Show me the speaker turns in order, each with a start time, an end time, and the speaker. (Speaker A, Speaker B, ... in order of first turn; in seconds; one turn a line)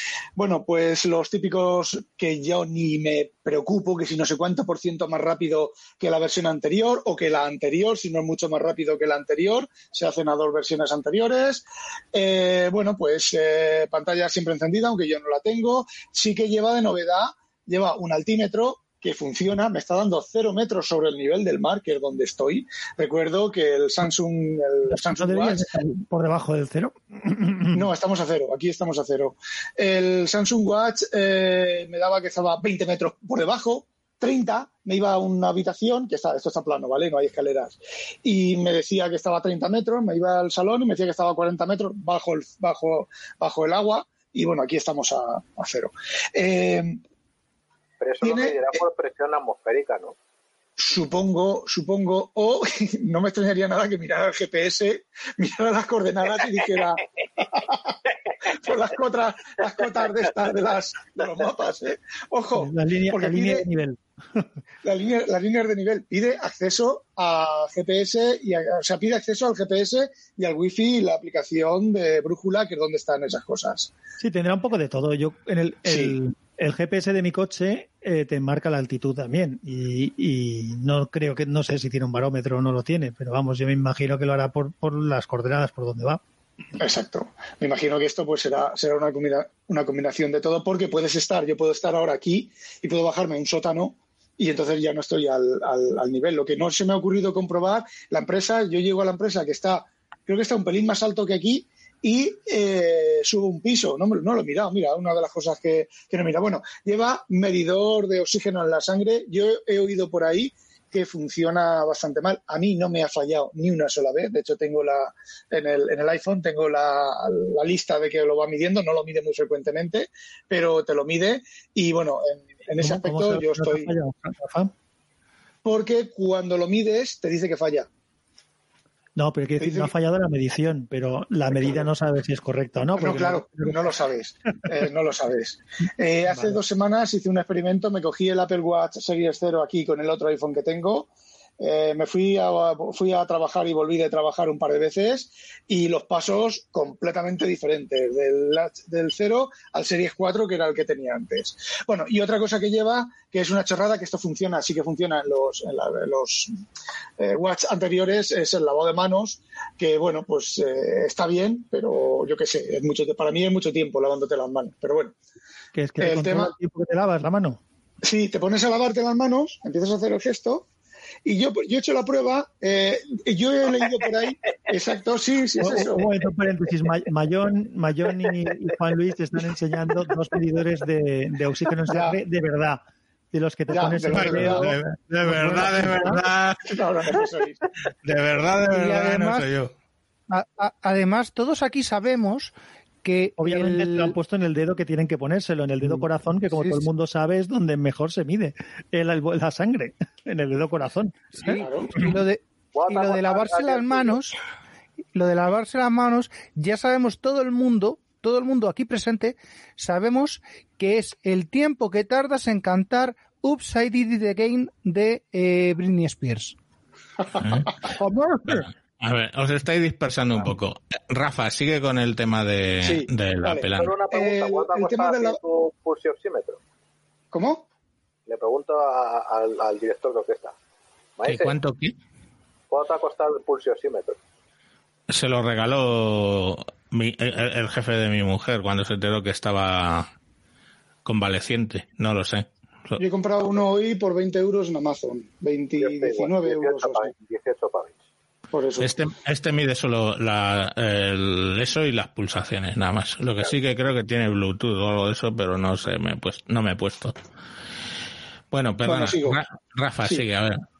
Speaker A: 0.3-25.9
Speaker B: 24.9-27.9
Speaker A: 27.7-47.0
Speaker C: 48.0-50.1
Speaker A: 48.2-48.8
Speaker A: 50.8-58.0
Speaker A: 58.5-63.7
Speaker B: 62.5-64.5
Speaker A: 64.8-73.9
Speaker B: 74.2-86.2
Speaker A: 75.8-76.2
Speaker A: 86.8-124.0
Speaker B: 122.8-124.7
Speaker A: 125.6-127.9
Speaker B: 129.2-133.8
Speaker A: 129.6-129.9
Speaker A: 131.5-131.9
Speaker A: 132.9-156.5
Speaker A: 157.2-165.2
Speaker B: 165.7-167.6
Speaker A: 166.0-166.5
Speaker A: 168.0-170.7
Speaker A: 171.2-176.1
Speaker B: 175.6-186.2
Speaker A: 181.9-182.2
Speaker A: 183.7-184.6
Speaker D: 184.1-186.6
Speaker A: 186.6-187.6
Speaker D: 188.0-189.7
Speaker E: 188.7-189.4
Speaker E: 190.3-194.1
Speaker B: 193.4-202.2
Speaker E: 196.5-196.8
Speaker A: 201.4-201.9
Speaker E: 201.9-204.3
Speaker C: 202.7-204.2
Speaker E: 205.1-216.6
Speaker D: 217.4-217.8
Speaker E: 218.0-218.6
Speaker D: 218.5-223.9
Speaker A: 222.8-225.4
Speaker C: 223.7-226.6
Speaker A: 227.3-227.7
Speaker C: 228.3-230.5
Speaker C: 231.2-231.5
Speaker D: 231.2-231.9
Speaker C: 232.7-234.2
Speaker D: 235.1-240.1
Speaker D: 241.0-243.0
Speaker A: 243.0-247.1
Speaker C: 245.8-248.0
Speaker A: 248.5-248.9
Speaker D: 248.8-257.1
Speaker D: 258.5-260.6
Speaker A: 258.8-259.4